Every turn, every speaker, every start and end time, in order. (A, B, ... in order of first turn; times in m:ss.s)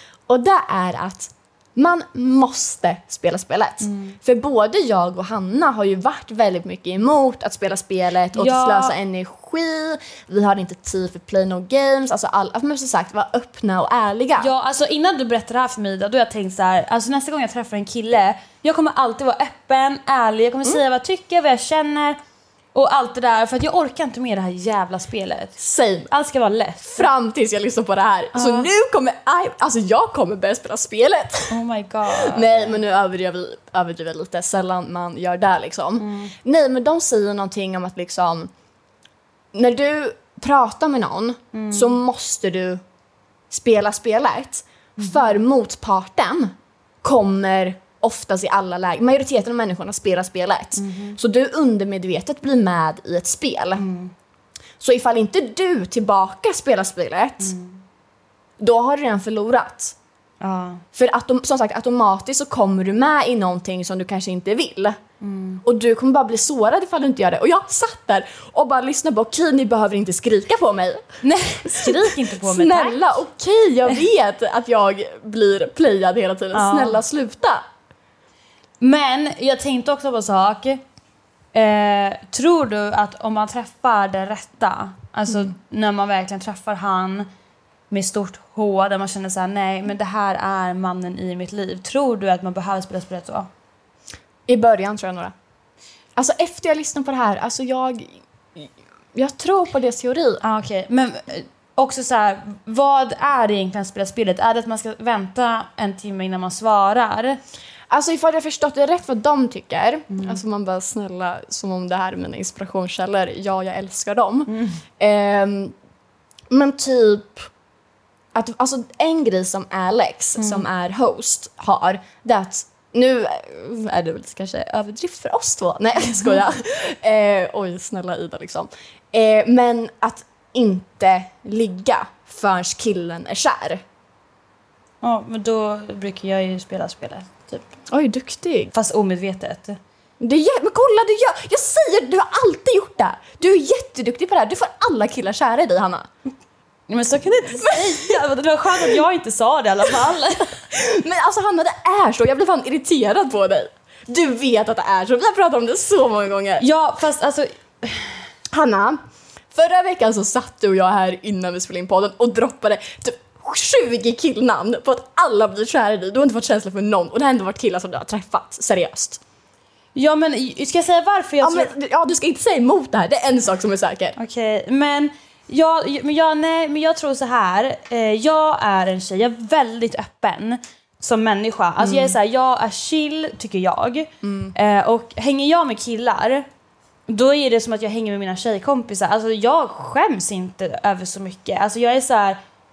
0:00.3-0:14.5 A
0:03.8-0:04.1 B
0:08.4-0:08.9 B
0:14.4-0:22.2 B
0:22.7-0:27.1 B
0:25.6-0:26.1 A
0:26.9-0:38.5 A
0:28.3-0:28.7 B
0:31.5-0:32.8 B
0:36.0-0:36.3 B
0:39.5-0:42.8 A
0:41.5-0:42.0 B
0:43.5-0:53.8 A
0:50.8-0:51.2 B
0:53.8-0:54.1 B
0:54.8-0:57.5 A
0:57.4-0:57.8 B
0:58.6-1:00.0 A
1:00.4-1:00.8 B
1:00.9-1:05.0 A
1:05.2-1:05.6 B
1:05.6-1:11.1 A
1:11.2-1:13.0 B
1:11.6-1:17.6 A
1:16.5-1:17.0 B
1:18.8-1:20.8 B
1:21.5-1:27.3 B
1:27.9-1:33.5 B
1:34.5-1:35.3 A
1:36.2-1:40.4 A
1:40.4-1:47.4 B
1:47.9-1:55.7 A
1:50.1-1:50.4 B
1:54.5-1:54.8 B
1:56.5-1:57.5 A
1:58.3-2:13.8 A
2:00.4-2:00.6 B
2:15.0-2:17.7 B
2:17.9-2:18.7 A
2:18.7-2:19.8 B
2:20.2-2:26.1 A
2:26.9-2:30.6 B
2:27.5-2:28.2 A
2:30.5-2:36.6 A
2:36.6-2:38.1 B
2:38.5-2:39.0 A
2:39.5-2:49.2 A
2:49.9-2:51.7 B
2:51.4-2:54.2 A
2:54.2-3:06.4 B
3:01.8-3:02.2 A
3:04.2-3:04.5 A
3:07.1-3:12.4 B